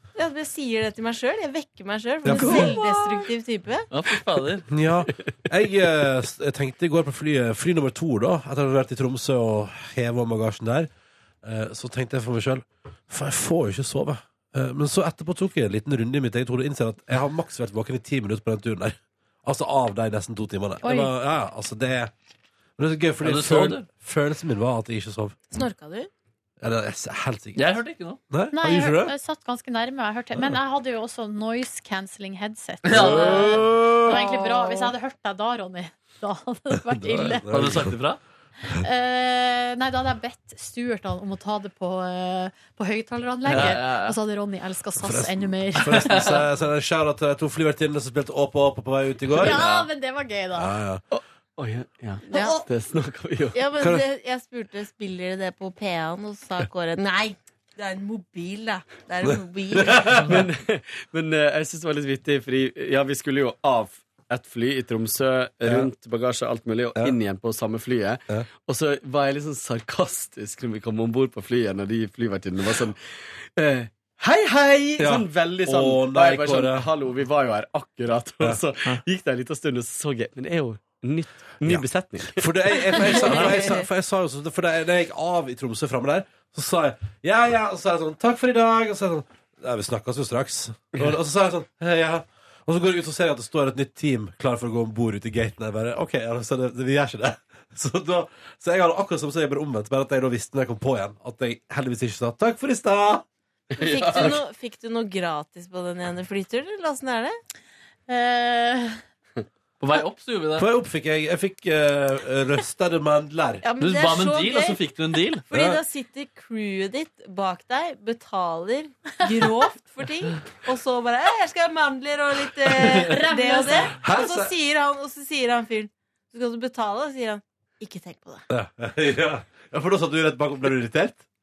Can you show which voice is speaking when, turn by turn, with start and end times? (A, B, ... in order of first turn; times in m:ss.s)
0:00.2-0:03.9 A
0:02.2-0:02.8 B
0:02.4-0:02.9 C
0:03.9-0:04.7 D
0:04.7-0:10.9 B
0:11.4-0:22.1 B
0:20.8-0:21.1 C
0:22.8-0:25.4 B
0:23.2-0:23.9 D
0:25.5-0:26.1 A
0:26.6-0:27.6 B
0:27.6-0:28.2 D
0:28.3-0:29.2 B
0:28.5-0:37.6 C
0:32.8-0:34.0 D
0:32.9-0:34.2 B
0:34.1-0:34.9 A
0:36.7-0:38.0 B
0:37.5-0:38.2 D
0:38.7-0:46.3 C
0:43.5-0:44.2 D
0:45.0-0:49.6 B
0:49.4-0:50.7 C
0:49.5-0:49.9 D
0:50.6-0:51.0 B
0:51.1-0:53.6 E
0:52.2-0:52.6 A
0:52.3-0:52.6 C
0:53.5-1:00.2 A
0:53.8-0:54.1 B
0:59.8-1:00.2 B
1:00.3-1:23.1 E
1:05.6-1:05.9 B
1:15.0-1:16.9 B
1:21.6-1:43.2 B
1:23.2-1:23.8 A
1:43.8-1:44.4 B
1:43.8-1:47.4 A
1:48.1-1:49.0 C
1:49.8-1:50.7 D
1:50.6-1:53.6 B
1:53.6-1:54.8 A
1:53.8-1:55.4 D
1:55.5-2:08.5 A
1:55.5-1:55.8 B
2:03.0-2:03.9 C
2:04.0-2:04.5 B
2:08.5-2:11.2 B